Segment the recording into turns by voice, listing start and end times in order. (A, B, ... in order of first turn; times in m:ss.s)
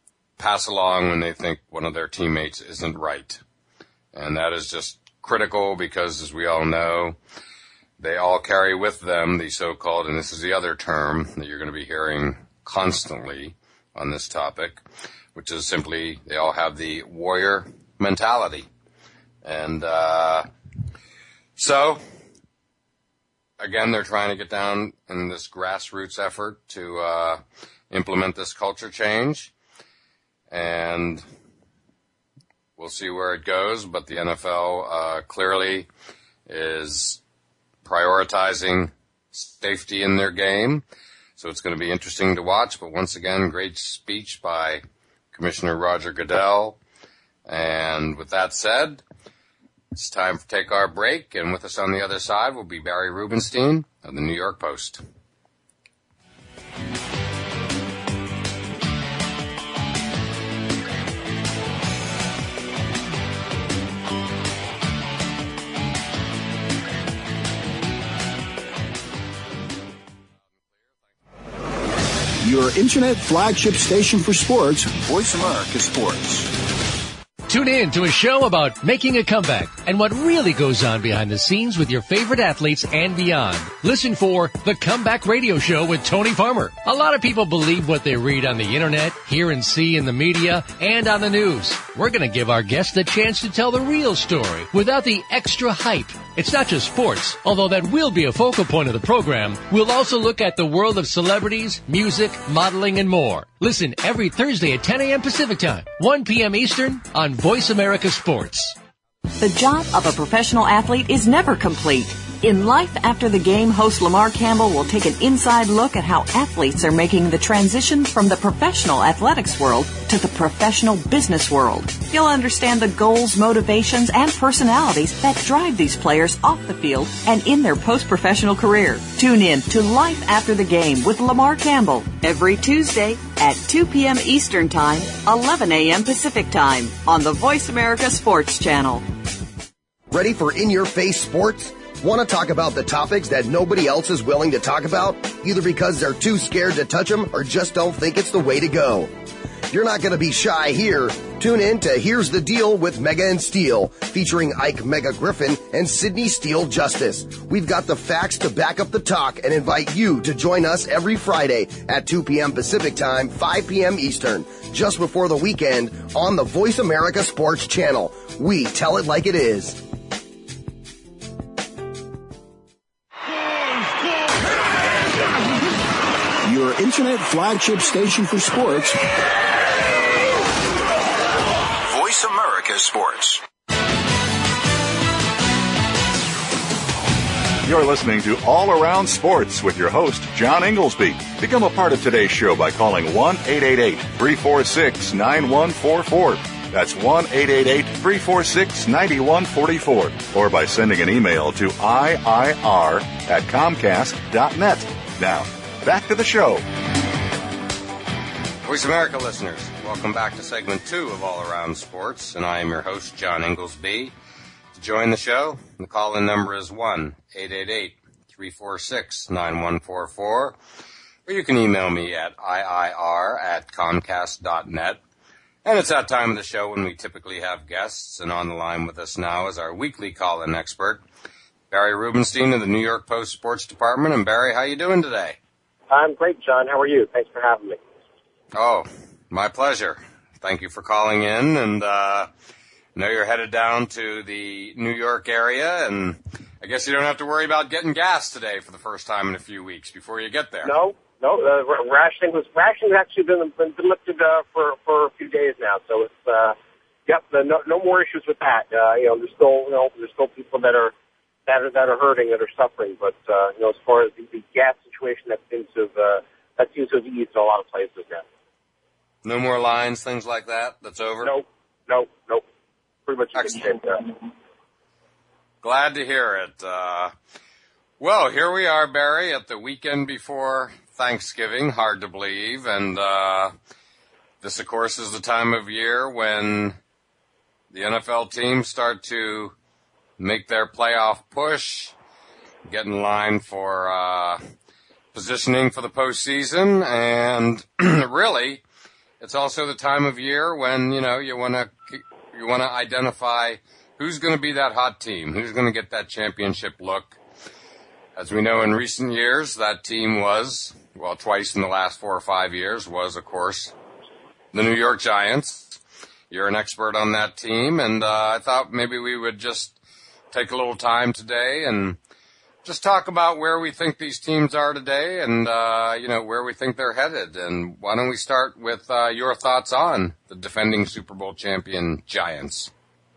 0:00.4-0:03.4 A
0:04.1-0:07.2 A
0:08.0-0:14.8 A
0:15.3-0:18.7 A
0:19.4-0:20.4 A
0:21.6-0:22.0 A
0:23.6-0:27.4 A
0:27.9-0:29.5 A
0:30.5-0:31.2 A
0:32.8-0:35.9 A
0:36.5-0:37.2 A
0:37.8-0:40.8 A
0:41.4-0:44.8 A
0:45.3-0:46.8 A
0:47.4-0:49.0 A
0:49.9-0:55.0 A
1:12.4-1:16.5 B
1:17.5-1:48.8 C
1:49.4-2:19.0 D
2:20.1-2:29.1 E
2:29.7-2:49.8 E
2:56.4-2:59.0 B
3:01.8-3:03.4 B
3:07.6-3:26.6 F
3:28.6-3:34.1 A
3:34.7-3:40.6 A
3:41.2-3:45.0 A
3:45.6-3:51.0 A
3:51.7-3:55.4 A
3:55.9-3:57.8 G
3:58.5-4:02.3 A
4:02.9-4:10.7 A
4:10.6-4:16.6 G
4:17.1-4:20.9 G
4:21.5-4:28.2 G
4:29.2-4:31.3 A
4:31.2-4:32.4 G
4:33.1-4:34.1 G
4:35.6-4:37.1 A
4:38.0-4:43.5 A
4:44.4-4:46.8 A
4:47.7-4:49.5 A
4:50.2-4:51.9 A
4:52.7-4:54.4 A
4:55.1-4:58.6 A
4:59.2-5:07.2 A
5:08.2-5:13.7 A
5:14.5-5:15.8 A
5:16.3-5:19.8 A
5:20.3-5:22.0 A
5:22.6-5:32.7 A